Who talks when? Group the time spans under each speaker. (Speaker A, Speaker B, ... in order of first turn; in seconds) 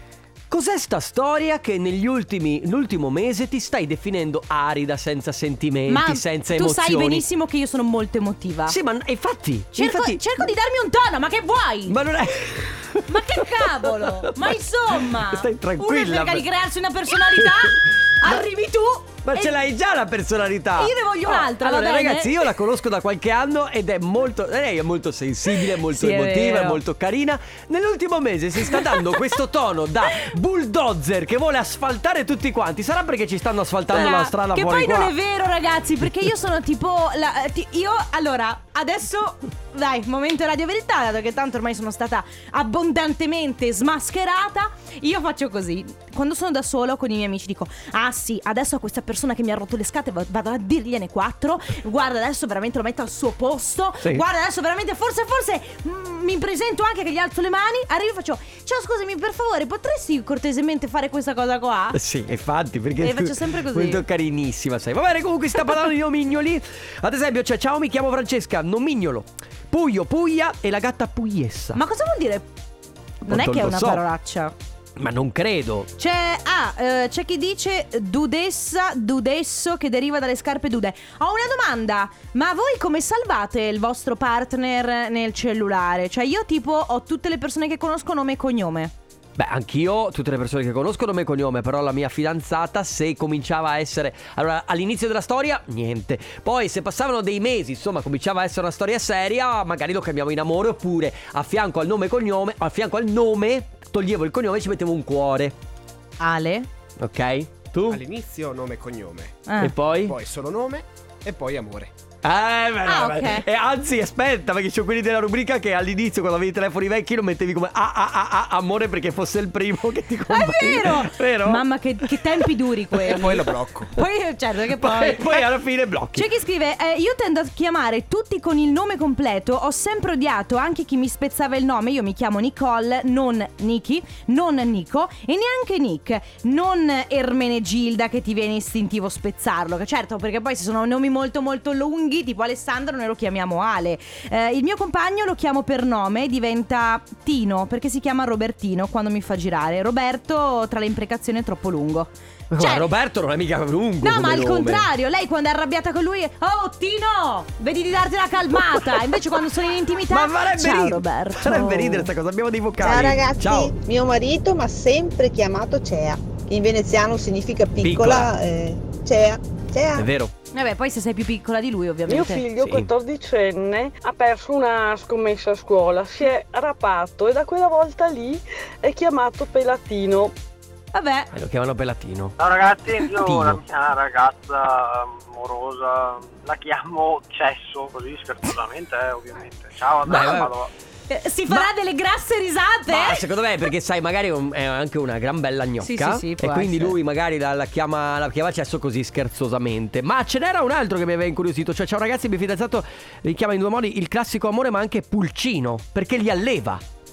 Speaker A: 0.5-7.2, 8.7-10.2, 11.9-16.4, 17.4-18.4, 19.2-35.1, 61.9-71.8, 73.2-74.0, 75.0-75.9, 89.4-105.5, 107.0-108.0, 109.6-110.1, 112.2-122.4, 123.0-123.4, 124.8-126.3, 152.5-154.9, 158.7-159.2, 160.1-163.8, 167.8-168.3, 169.9-170.3, 172.6-172.9, 181.3-182.4, 183.1-183.6, 190.0-190.5, 192.9-206.8
Speaker B: 5.9-8.8, 9.8-11.9, 13.1-19.5, 20.8-22.5, 25.5-26.8, 28.7-29.2, 33.9-62.0, 63.0-64.0, 71.8-72.4, 73.3-74.5, 76.0-88.9, 106.2-106.7, 109.5-109.7, 112.8-113.5, 120.3-125.5, 126.1-152.9, 154.0-162.1, 170.5-172.5, 180.9-181.3, 191.1-193.2, 195.8-196.9
Speaker C: 107.9-109.5, 110.0-111.9, 123.0-123.9
Speaker D: 162.8-170.1
Speaker E: 172.1-180.3
Speaker F: 182.4-190.7